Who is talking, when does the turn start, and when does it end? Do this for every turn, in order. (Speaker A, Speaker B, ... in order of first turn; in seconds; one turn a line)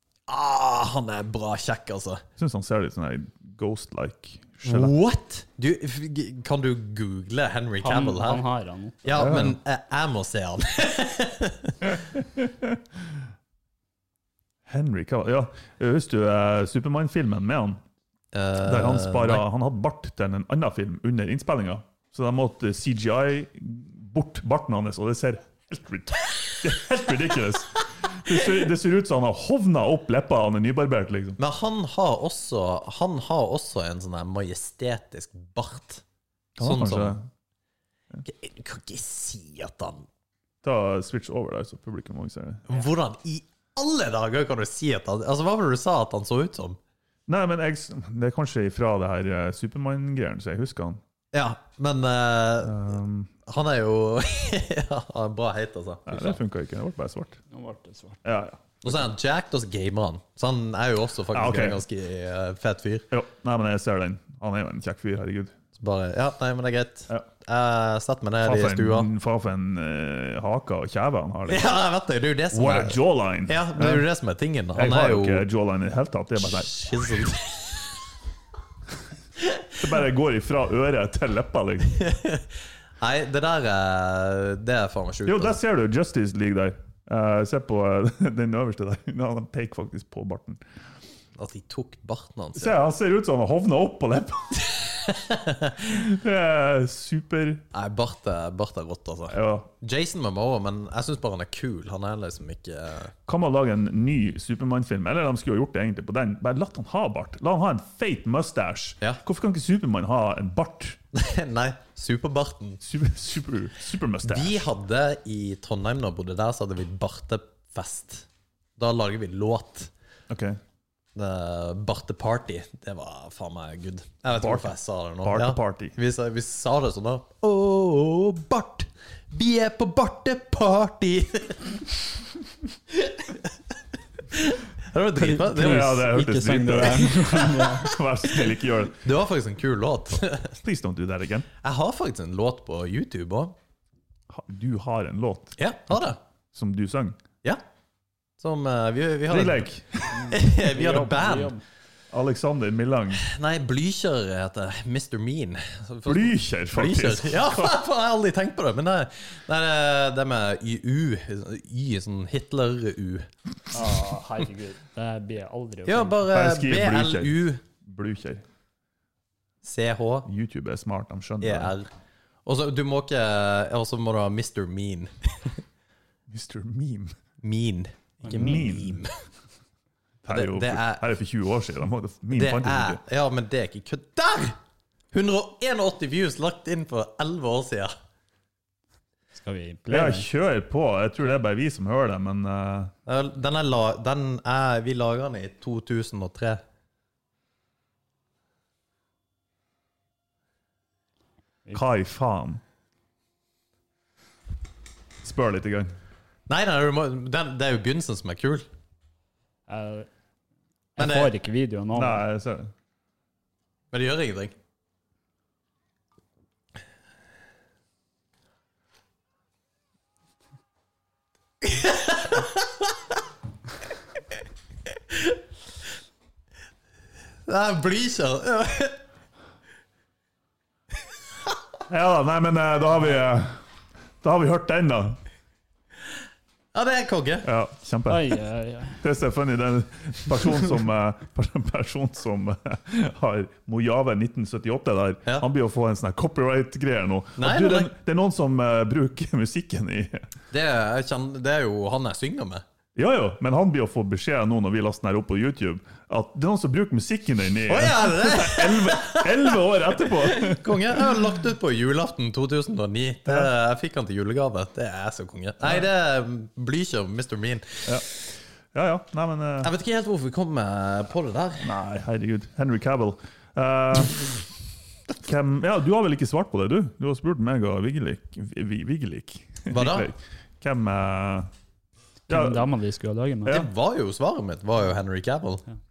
Speaker A: 0.3-2.2
Speaker B: 2.4-4.9
Speaker A: 4.6-8.4
Speaker C: 7.8-9.1
Speaker A: 9.0-12.0
Speaker B: 9.2-9.6
Speaker B: 12.0-12.8
Speaker B: 14.7-17.8
Speaker A: 18.3-19.4
Speaker B: 18.6-31.4
Speaker A: 31.4-36.0
Speaker B: 36.6-37.2
Speaker A: 36.6-37.2
Speaker A: 38.2-40.1
Speaker B: 40.6-42.6
Speaker A: 42.7-46.8
Speaker B: 47.3-51.0
Speaker A: 51.3-52.9
Speaker B: 52.6-53.3
Speaker A: 53.4-56.4
Speaker B: 56.1-57.4
Speaker C: 57.5-58.2
Speaker B: 58.2-59.0
Speaker A: 58.8-63.1
Speaker B: 61.3-61.8
Speaker B: 63.1-65.5
Speaker A: 65.8-69.1
Speaker B: 68.4-71.7
Speaker A: 71.5-75.5
Speaker B: 72.5-74.0
Speaker B: 74.7-76.7
Speaker A: 76.4-77.9
Speaker B: 79.8-81.9
Speaker A: 81.9-82.5
Speaker A: 83.0-85.6
Speaker B: 85.2-90.6
Speaker A: 91.4-92.8
Speaker B: 92.5-95.0
Speaker A: 95.0-96.0
Speaker B: 95.8-97.6
Speaker A: 97.7-103.1
Speaker B: 99.3-99.7
Speaker B: 103.3-111.0
Speaker A: 111.1-112.8
Speaker B: 112.8-114.6
Speaker A: 114.2-118.3
Speaker A: 118.8-119.9
Speaker B: 120.3-120.6
Speaker A: 121.1-132.0
Speaker B: 124.4-126.0
Speaker A: 132.9-133.6
Speaker A: 134.3-136.1
Speaker C: 135.2-138.0
Speaker B: 135.5-139.0
Speaker A: 139.0-140.6
Speaker B: 140.6-141.5
Speaker A: 141.6-143.5
Speaker B: 144.3-146.0
Speaker A: 145.6-146.2
Speaker B: 146.5-147.2
Speaker A: 148.4-149.7
Speaker B: 149.3-150.3
Speaker C: 150.1-151.6
Speaker A: 150.3-151.5
Speaker B: 152.1-153.2
Speaker A: 153.1-163.3
Speaker B: 156.1-157.8
Speaker C: 163.7-166.2
Speaker A: 165.8-167.6
Speaker B: 166.3-168.4
Speaker A: 169.6-170.3
Speaker B: 170.2-171.7
Speaker A: 171.4-171.9
Speaker A: 172.4-175.6
Speaker B: 176.3-177.1
Speaker A: 177.4-179.1
Speaker B: 178.2-179.0
Speaker B: 180.2-183.0
Speaker A: 180.3-181.1
Speaker A: 182.3-184.6
Speaker A: 185.1-187.9
Speaker C: 189.3-190.3
Speaker B: 189.9-192.9
Speaker A: 193.1-196.6
Speaker B: 201.7-202.6
Speaker B: 205.2-206.0
Speaker A: 206.5-208.6
Speaker C: 209.7-210.1
Speaker C: 210.9-212.2
Speaker A: 211.0-211.3
Speaker B: 211.9-212.7
Speaker A: 213.9-214.5
Speaker A: 221.6-222.9
Speaker A: 227.4-229.0
Speaker B: 231.9-233.6
Speaker B: 234.2-235.2
Speaker A: 236.7-237.5
Speaker B: 237.4-238.3
Speaker C: 238.1-239.0
Speaker B: 239.0-250.2
Speaker A: 247.4-247.9
Speaker A: 250.5-252.6
Speaker B: 252.9-261.2
Speaker A: 257.7-267.9
Speaker B: 268.7-269.7
Speaker A: 269.6-271.7
Speaker B: 271.6-274.3
Speaker B: 275.2-281.5
Speaker A: 279.7-280.1
Speaker C: 282.3-283.6
Speaker B: 282.3-282.7
Speaker A: 283.4-285.6